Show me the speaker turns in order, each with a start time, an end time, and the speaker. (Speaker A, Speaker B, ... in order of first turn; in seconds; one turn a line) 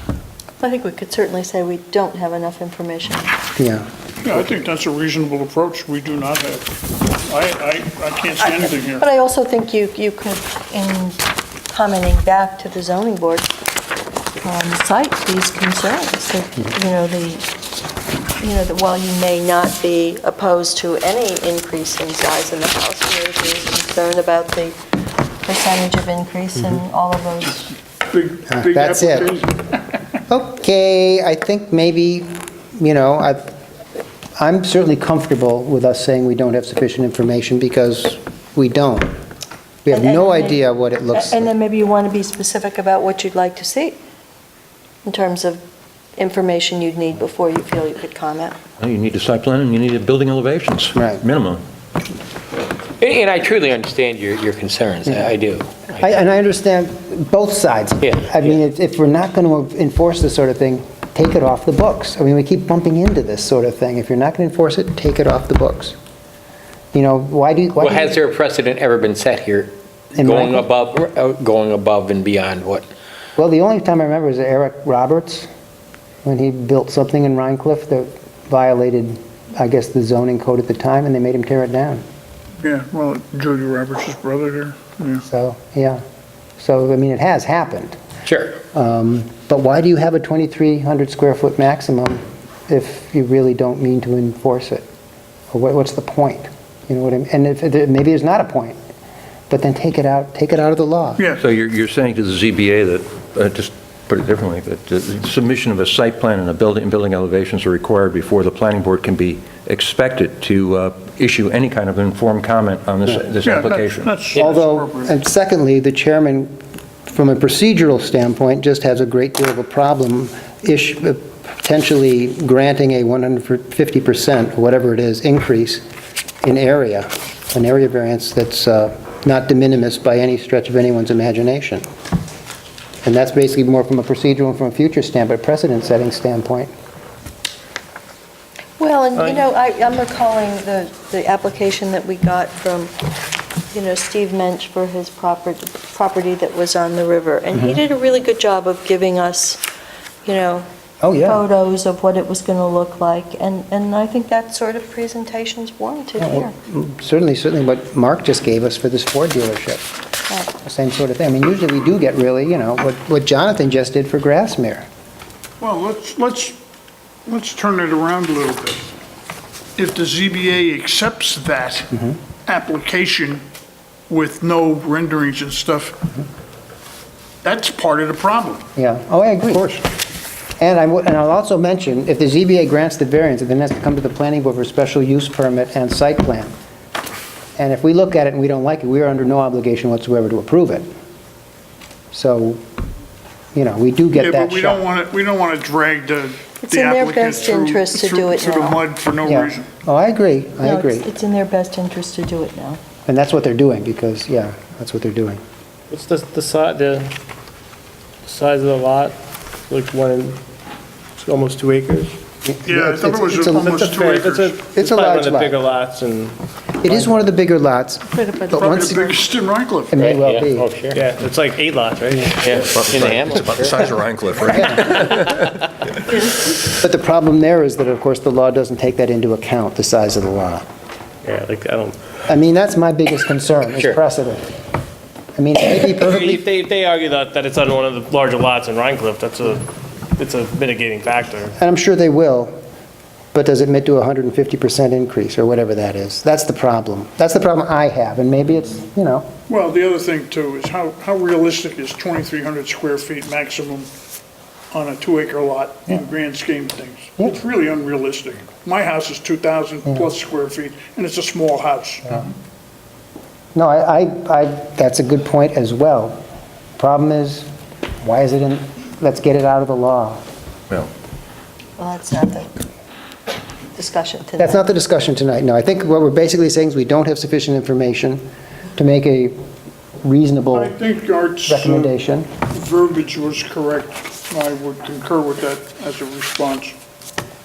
Speaker A: 0.6-3.3
Speaker B: 3.6-3.9
Speaker C: 4.2-6.7
Speaker C: 7.2-9.0
Speaker A: 8.4-13.5
Speaker A: 14.4-17.4
Speaker A: 18.4-24.8
Speaker A: 25.4-27.7
Speaker C: 28.1-29.6
Speaker B: 28.5-29.4
Speaker B: 30.3-33.5
Speaker B: 34.4-39.1
Speaker B: 39.9-41.5
Speaker A: 39.9-44.0
Speaker A: 45.0-45.6
Speaker A: 46.2-48.6
Speaker D: 48.8-51.6
Speaker B: 51.0-51.2
Speaker E: 53.0-56.0
Speaker B: 55.1-55.3
Speaker B: 56.0-66.0
Speaker E: 58.0-58.5
Speaker B: 66.9-68.2
Speaker E: 67.8-72.9
Speaker B: 70.2-70.7
Speaker B: 73.4-75.5
Speaker B: 76.2-82.0
Speaker C: 82.6-85.2
Speaker B: 85.3-86.0
Speaker B: 86.6-88.0
Speaker E: 88.3-88.6
Speaker B: 88.7-94.9
Speaker B: 95.5-98.8
Speaker B: 99.5-101.2
Speaker D: 101.4-114.2
Speaker C: 113.4-115.1
Speaker B: 114.4-125.8
Speaker B: 126.4-131.9
Speaker B: 133.0-136.7
Speaker A: 138.8-142.9
Speaker A: 143.7-149.7
Speaker A: 150.2-150.7
Speaker B: 151.0-151.4
Speaker A: 151.2-156.5
Speaker B: 156.2-159.8
Speaker B: 160.6-164.9
Speaker C: 165.6-166.6
Speaker C: 167.3-168.9
Speaker C: 169.8-171.9
Speaker C: 172.5-173.4
Speaker C: 174.1-176.0
Speaker C: 177.4-178.7
Speaker B: 178.8-179.8
Speaker B: 180.6-186.5
Speaker B: 187.6-190.9
Speaker B: 192.1-192.6
Speaker B: 193.6-194.8
Speaker C: 194.2-199.7
Speaker A: 196.6-198.8
Speaker B: 199.2-201.1
Speaker A: 200.6-202.8
Speaker B: 203.1-205.4
Speaker F: 205.9-207.1
Speaker F: 208.2-209.2
Speaker F: 209.7-210.4
Speaker F: 211.2-212.1
Speaker B: 212.4-215.6
Speaker C: 212.6-214.6
Speaker F: 213.6-217.3
Speaker B: 216.8-219.2
Speaker A: 218.2-218.5
Speaker C: 218.5-220.0
Speaker B: 219.9-220.7
Speaker E: 220.0-221.0
Speaker F: 220.9-223.4
Speaker E: 222.5-223.9
Speaker D: 222.6-225.5
Speaker B: 224.5-224.9
Speaker B: 226.6-230.7
Speaker F: 231.2-232.0
Speaker B: 232.3-234.5
Speaker B: 235.4-236.4
Speaker F: 235.9-241.6
Speaker B: 241.6-242.6
Speaker B: 243.3-249.3
Speaker C: 249.5-253.9
Speaker C: 254.7-262.3
Speaker B: 263.6-266.2
Speaker B: 266.8-267.5
Speaker B: 268.0-270.2
Speaker A: 271.8-272.5
Speaker A: 273.8-274.6
Speaker B: 274.4-278.2
Speaker B: 278.8-279.4
Speaker B: 280.0-280.8
Speaker C: 280.5-281.9
Speaker B: 281.5-282.3
Speaker C: 282.5-286.8